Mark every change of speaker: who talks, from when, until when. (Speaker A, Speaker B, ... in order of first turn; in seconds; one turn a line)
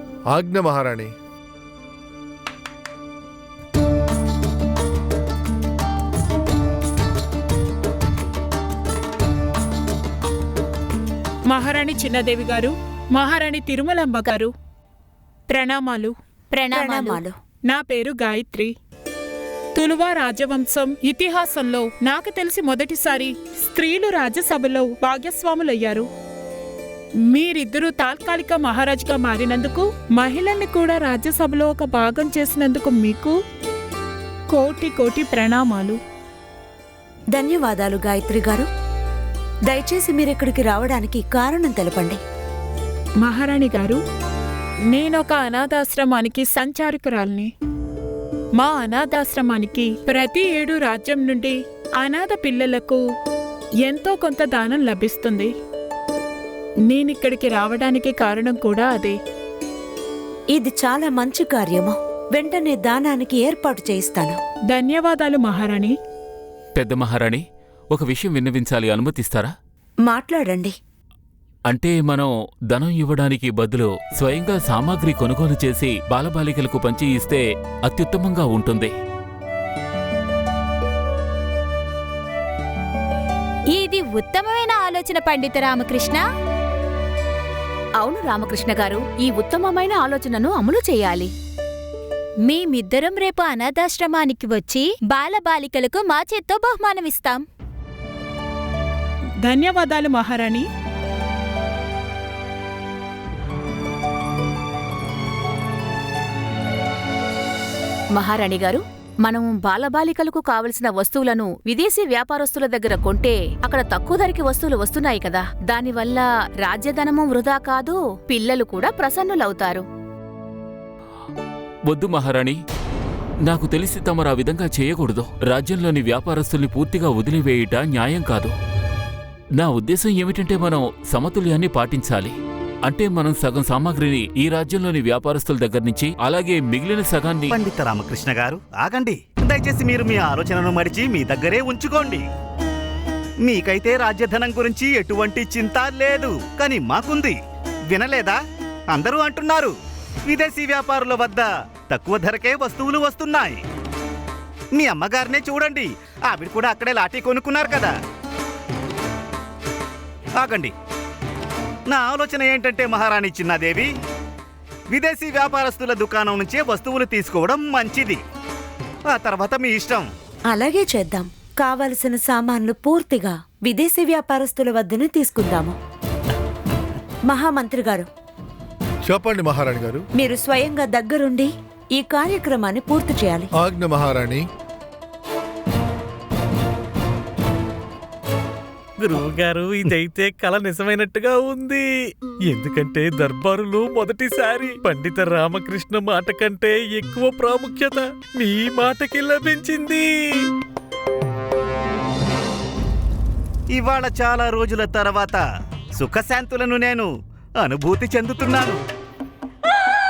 Speaker A: 0.3-1.1
Speaker B: 11.5-14.5
Speaker B: 15.5-16.1
Speaker C: 16.6-17.2
Speaker D: 16.7-17.3
Speaker B: 17.7-18.7
Speaker B: 19.8-26.1
Speaker B: 27.3-33.3
Speaker B: 34.5-36.0
Speaker D: 37.3-38.7
Speaker D: 39.7-42.2
Speaker B: 43.2-44.0
Speaker B: 44.9-47.5
Speaker B: 48.6-53.0
Speaker B: 53.9-55.5
Speaker B: 56.9-59.2
Speaker D: 60.5-64.4
Speaker B: 64.7-66.0
Speaker E: 66.8-67.4
Speaker E: 67.9-69.5
Speaker D: 70.1-70.7
Speaker E: 71.7-78.9
Speaker C: 83.7-86.2
Speaker F: 88.0-91.3
Speaker C: 92.5-97.5
Speaker B: 99.4-100.7
Speaker F: 108.1-119.8
Speaker E: 121.9-122.6
Speaker E: 123.5-128.5
Speaker E: 129.6-132.3
Speaker E: 132.8-137.6
Speaker G: 137.5-142.2
Speaker G: 143.4-147.4
Speaker G: 147.9-148.4
Speaker G: 148.9-149.7
Speaker G: 150.3-153.6
Speaker G: 154.8-157.9
Speaker G: 160.4-160.7
Speaker G: 161.9-163.9
Speaker G: 164.9-168.2
Speaker G: 169.1-170.1
Speaker D: 170.5-175.8
Speaker D: 177.3-178.1
Speaker A: 179.1-180.1
Speaker D: 180.2-183.5
Speaker A: 183.6-184.4
Speaker H: 189.0-200.5
Speaker G: 203.7-205.4
Speaker G: 206.0-207.1
Speaker G: 207.6-208.8